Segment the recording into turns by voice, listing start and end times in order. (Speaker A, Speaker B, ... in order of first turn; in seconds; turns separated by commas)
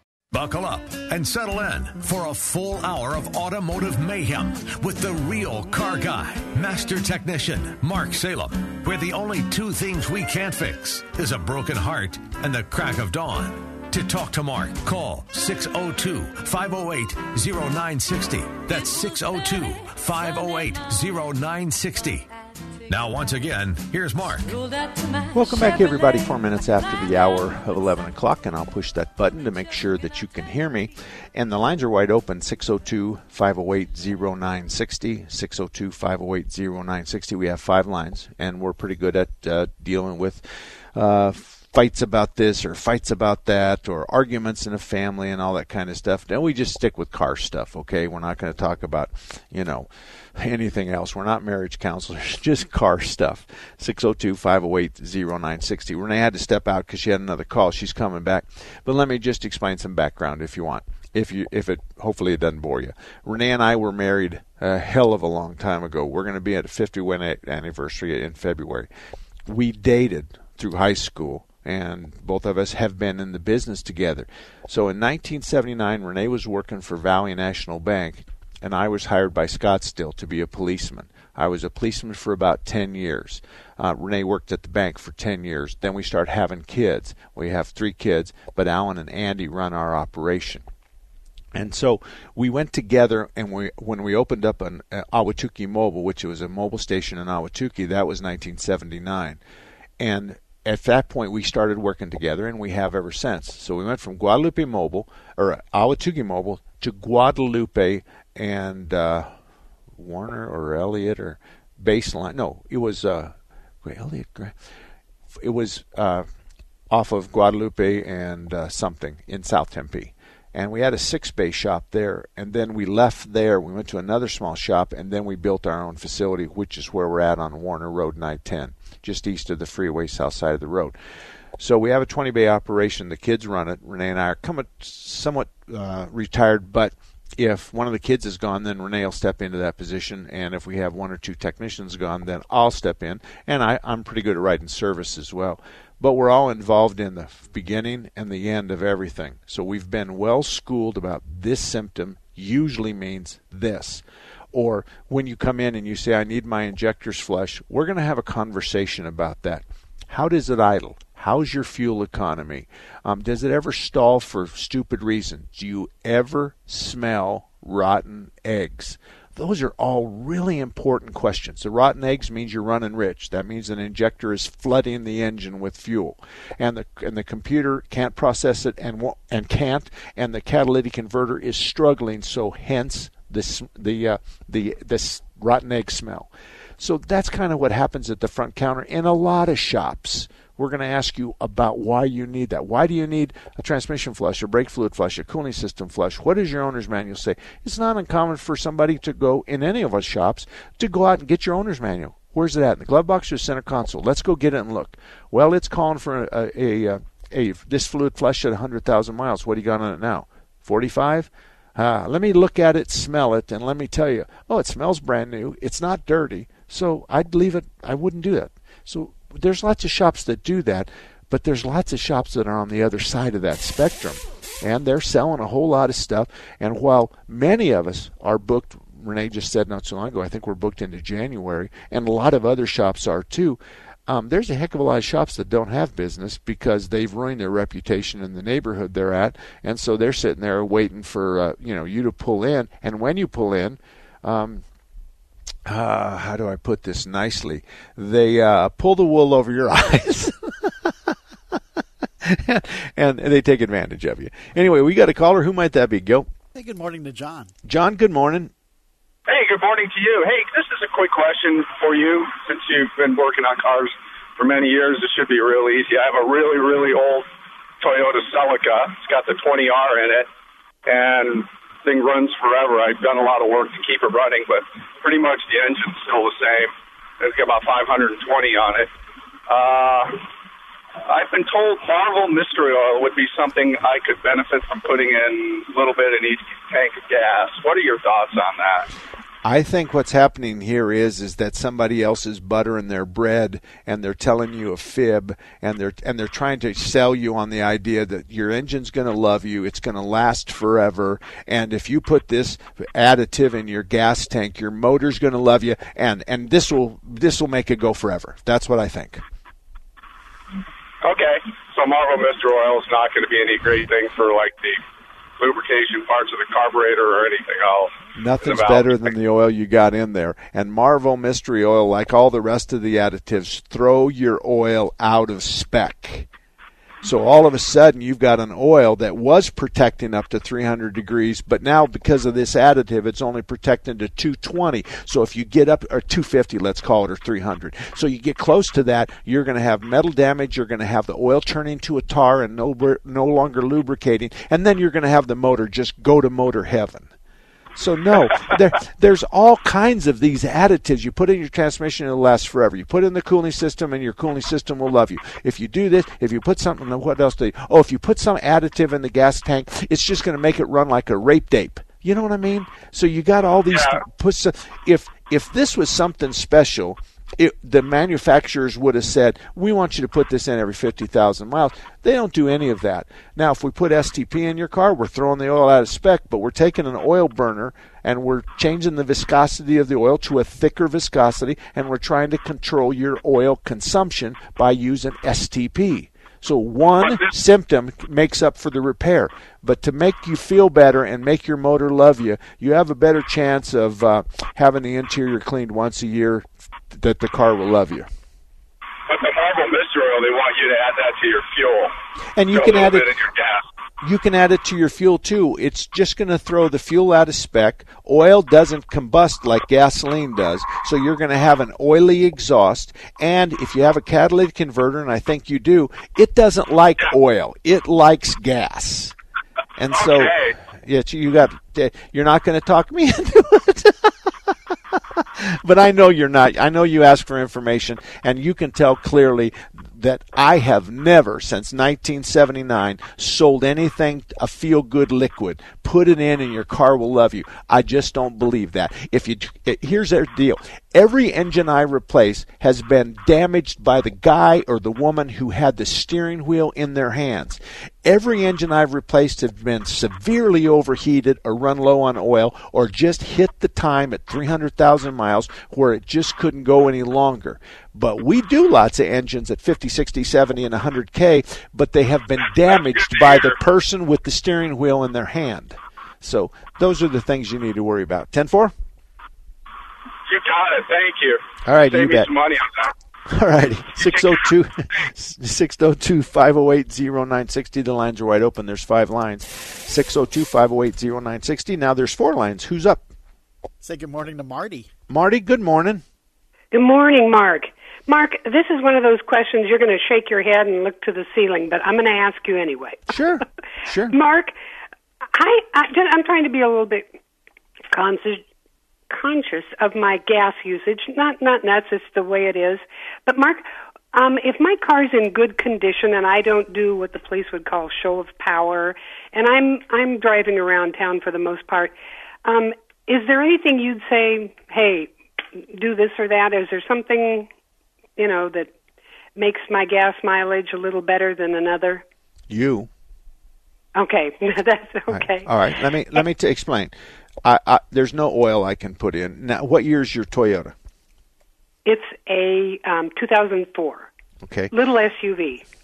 Speaker A: 0.3-22.3, Speaker A: 22.9-24.6, Speaker B: 25.3-68.9, Speaker B: 69.5-90.7, Speaker B: 91.5-99.4, Speaker B: 100.0-109.3, Speaker B: 110.0-114.5, Speaker B: 115.3-116.3, Speaker B: 116.9-131.0, Speaker B: 131.6-244.6, Speaker B: 245.7-251.1, Speaker B: 252.2-256.3, Speaker C: 256.6-257.5, Speaker B: 257.7-258.5, Speaker D: 259.3-267.3, Speaker D: 267.8-270.3, Speaker D: 270.9-278.9, Speaker D: 279.5-280.3, Speaker D: 281.1-288.9, Speaker B: 289.4-309.2, Speaker D: 311.0-314.8, Speaker D: 315.4-319.1, Speaker B: 318.2-326.3, Speaker B: 327.0-347.1, Speaker B: 347.8-398.1, Speaker D: 363.7-364.0, Speaker D: 399.1-401.9, Speaker B: 402.4-403.1, Speaker D: 402.5-403.6, Speaker B: 404.0-419.2, Speaker B: 419.8-424.1, Speaker D: 419.9-420.6, Speaker B: 425.2-468.7, Speaker D: 463.0-463.5, Speaker D: 470.3-472.9, Speaker B: 471.6-472.3, Speaker B: 473.3-483.1, Speaker C: 483.8-484.9, Speaker B: 485.1-486.0, Speaker E: 486.7-493.0, Speaker B: 493.1-494.1, Speaker E: 494.1-494.5, Speaker E: 495.3-497.1, Speaker E: 497.9-498.4, Speaker E: 499.1-511.9, Speaker E: 512.5-517.5, Speaker E: 518.2-518.7, Speaker E: 519.4-522.0, Speaker B: 522.5-522.9, Speaker E: 524.0-525.5, Speaker B: 525.1-530.8, Speaker E: 531.9-534.1, Speaker B: 534.4-534.7, Speaker E: 534.7-535.7